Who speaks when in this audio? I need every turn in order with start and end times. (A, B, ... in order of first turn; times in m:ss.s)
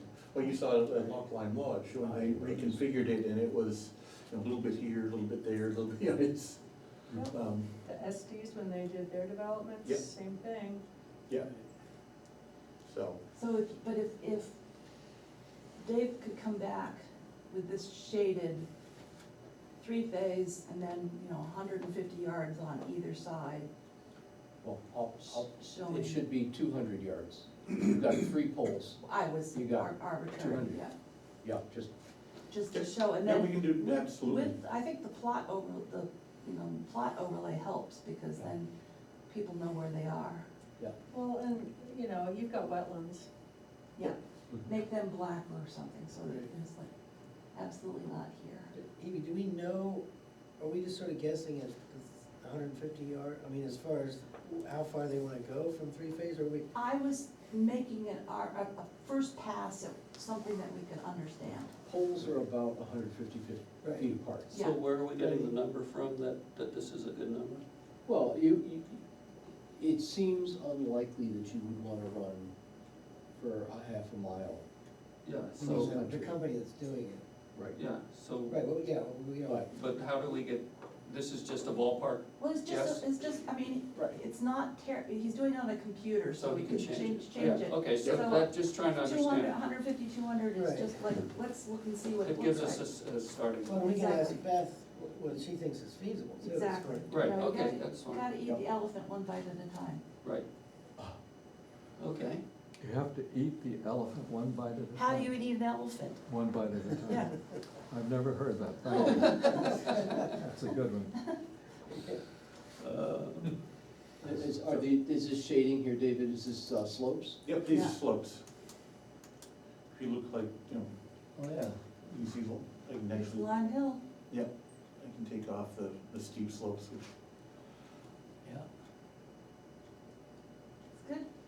0:00.2-0:07.8 A
0:02.0-0:02.7 B
0:07.1-0:10.8 C
0:12.8-0:13.2 A
0:13.4-0:14.6 D
0:15.8-0:18.7 D
0:19.8-0:23.7 D
0:24.6-0:29.0 E
0:25.2-0:26.2 D
0:29.0-0:30.9 D
0:29.5-0:30.8 E
0:31.4-0:31.9 E
0:32.5-0:38.7 D
0:32.7-0:34.5 A
0:39.3-0:40.5 D
0:41.1-0:43.3 C
0:44.0-0:46.9 D
0:47.5-0:48.7 D
0:48.7-0:50.0 B
0:50.6-0:56.7 B
0:56.7-1:01.7 D
1:01.8-1:04.5 E
1:03.8-1:04.1 B
1:04.5-1:04.8 D
1:04.5-1:07.6 F
1:08.0-1:09.0 E
1:09.7-1:12.5 E
1:13.3-1:14.6 E
1:15.2-1:15.9 F
1:15.6-1:17.2 B
1:15.6-1:16.4 E
1:17.7-1:18.6 F
1:18.5-1:19.7 B
1:19.7-1:23.1 F
1:22.4-1:32.8 D
1:26.3-1:29.6 F
1:27.4-1:28.3 A
1:30.5-1:31.0 B
1:32.2-1:33.9 F
1:33.6-1:37.2 B
1:33.8-1:34.4 D
1:36.4-1:40.0 D
1:37.1-1:38.3 F
1:42.0-1:42.4 F
1:42.8-1:45.3 G
1:44.9-1:46.2 D
1:46.2-1:51.2 G
1:47.0-1:47.4 D
1:49.1-1:49.4 D
1:52.8-1:53.5 F
1:54.2-1:57.4 E
1:57.4-1:58.4 A
1:57.7-1:58.0 D
1:59.9-2:00.9 A
2:01.4-2:01.7 B
2:02.0-2:03.5 A
2:03.1-2:04.0 D
2:04.3-2:07.1 A
2:11.0-2:11.3 D